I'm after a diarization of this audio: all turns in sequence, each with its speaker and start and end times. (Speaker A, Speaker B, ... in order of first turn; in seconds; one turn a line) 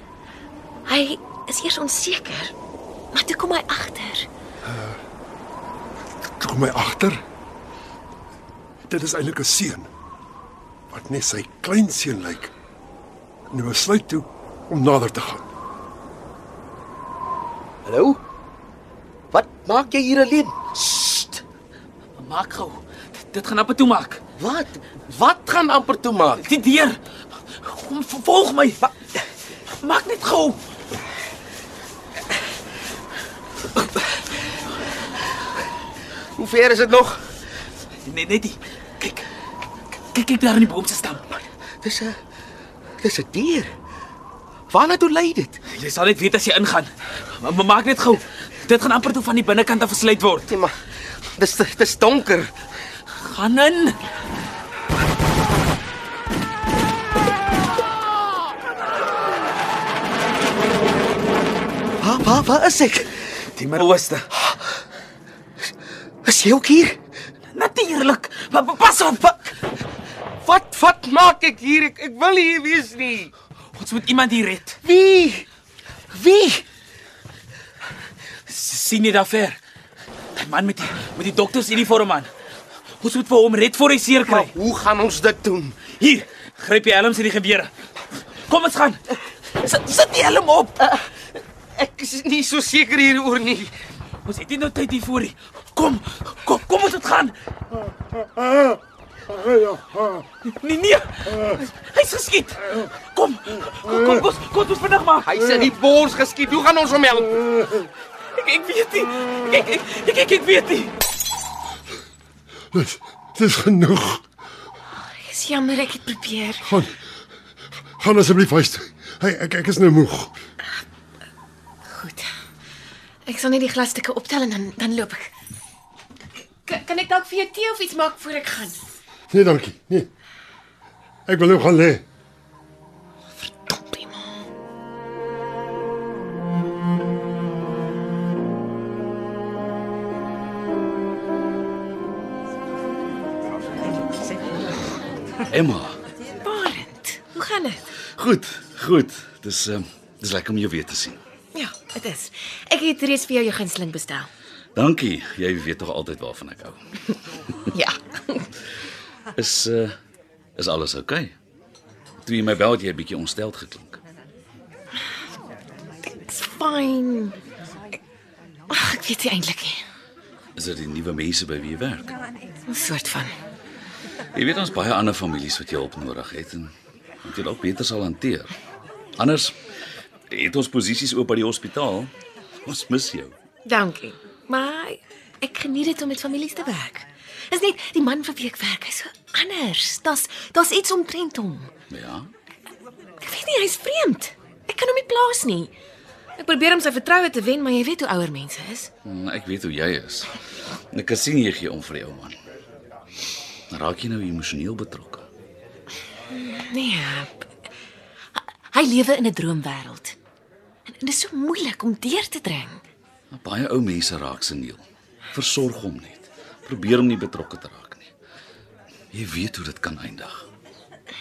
Speaker A: 0.8-2.5
Speaker A: 3.1-4.3
Speaker B: 4.6-5.0
Speaker B: 6.2-7.2
Speaker B: 8.8-9.9
Speaker B: 10.9-12.5
Speaker B: 13.5-15.5
Speaker C: 17.8-18.2
Speaker C: 19.3-20.8
Speaker D: 20.9-21.2
Speaker D: 22.2-24.2
Speaker C: 24.4-26.4
Speaker D: 26.4-27.0
Speaker D: 27.6-28.8
Speaker D: 29.8-30.6
Speaker C: 36.4-37.3
Speaker D: 38.0-39.2
Speaker D: 40.1-41.2
Speaker C: 41.8-42.2
Speaker C: 43.0-43.7
Speaker C: 44.7-45.6
Speaker D: 45.7-50.5
Speaker C: 50.5-50.8
Speaker C: 51.4-52.5
Speaker D: 53.2-54.0
Speaker C: 62.0-63.2
Speaker D: 63.5-64.2
Speaker C: 64.3-64.6
Speaker C: 66.2-67.0
Speaker D: 67.5-69.3
Speaker C: 70.4-73.3
Speaker D: 73.8-74.8
Speaker C: 74.8-75.5
Speaker C: 76.1-76.6
Speaker D: 78.5-79.6
Speaker D: 80.3-82.3
Speaker D: 83.0-84.5
Speaker C: 84.2-85.8
Speaker D: 85.9-87.7
Speaker D: 88.5-89.0
Speaker D: 89.7-90.7
Speaker C: 90.8-91.1
Speaker C: 91.8-93.7
Speaker D: 94.2-97.3
Speaker B: 98.4-98.7
Speaker B: 99.3-100.2
Speaker D: 100.5-105.3
Speaker C: 105.2-107.4
Speaker D: 108.4-110.9
Speaker B: 112.7-114.3
Speaker A: 115.0-116.6
Speaker B: 116.6-117.0
Speaker B: 118.0-120.4
Speaker A: 121.8-122.3
Speaker A: 123.2-125.3
Speaker A: 126.6-129.0
Speaker B: 129.3-130.1
Speaker B: 131.2-132.0
Speaker A: 133.4-134.4
Speaker E: 145.5-146.0
Speaker A: 146.4-147.9
Speaker E: 148.2-151.2
Speaker A: 151.5-154.3
Speaker E: 154.8-156.8
Speaker A: 157.7-158.5
Speaker E: 159.3-159.9
Speaker E: 160.6-161.3
Speaker E: 162.2-164.0
Speaker A: 166.0-167.4
Speaker A: 168.7-169.8
Speaker E: 170.6-172.2
Speaker A: 172.7-173.3
Speaker E: 174.3-176.7
Speaker E: 177.2-178.5
Speaker E: 179.2-179.6
Speaker E: 180.3-182.1
Speaker E: 182.6-183.3
Speaker A: 183.7-191.7
Speaker E: 191.9-192.3
Speaker A: 193.2-195.7
Speaker A: 196.4-198.9
Speaker E: 199.0-202.4
Speaker E: 203.7-205.2
Speaker A: 206.3-207.5
Speaker A: 208.3-210.2
Speaker A: 210.9-212.8
Speaker E: 213.3-218.1
Speaker E: 219.1-220.5